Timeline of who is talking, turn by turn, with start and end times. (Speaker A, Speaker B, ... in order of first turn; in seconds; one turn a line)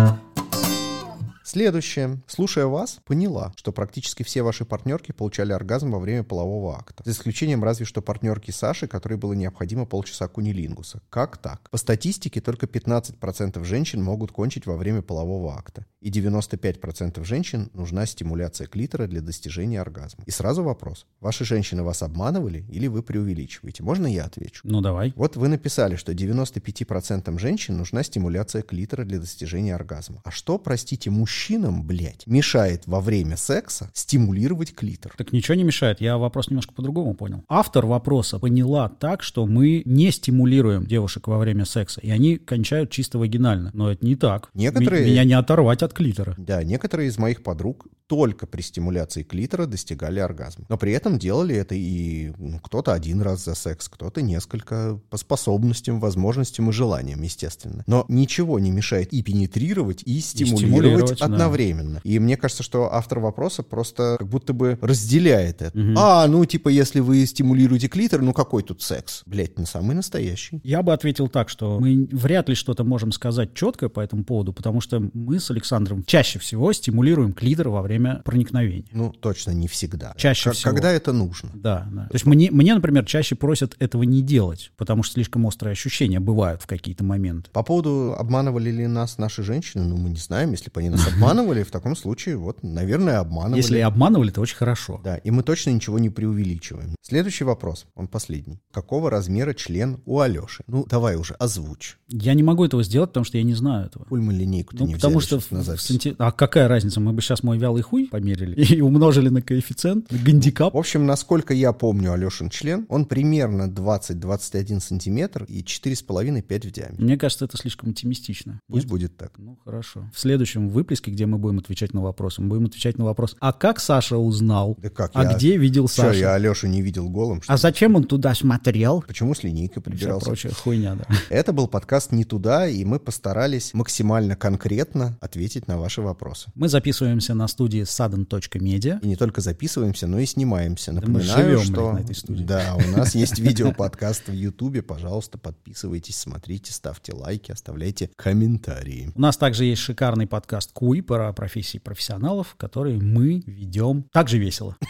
Speaker A: 1.4-24.6
Speaker B: 24.6-25.1
Speaker A: 25.1-35.2
Speaker B: 35.2-46.4
Speaker A: 44.5-45.3
Speaker A: 46.4-70.6
Speaker B: 60.4-61.6
Speaker B: 65.7-66.1
Speaker B: 70.6-78.9
Speaker A: 78.9-81.5
Speaker B: 80.2-80.9
Speaker B: 81.5-87.5
Speaker A: 87.5-93.9
Speaker B: 93.5-95.0
Speaker A: 95.0-102.0
Speaker B: 102.1-104.1
Speaker A: 104.1-106.0
Speaker B: 104.7-110.7
Speaker A: 110.4-117.0
Speaker B: 117.0-126.3
Speaker A: 118.7-119.3
Speaker A: 124.8-127.9
Speaker B: 127.5-129.1
Speaker A: 129.1-130.4
Speaker B: 129.9-131.2
Speaker A: 131.3-136.5
Speaker B: 136.6-139.0
Speaker A: 139.0-149.1
Speaker B: 141.0-143.1
Speaker B: 149.2-154.8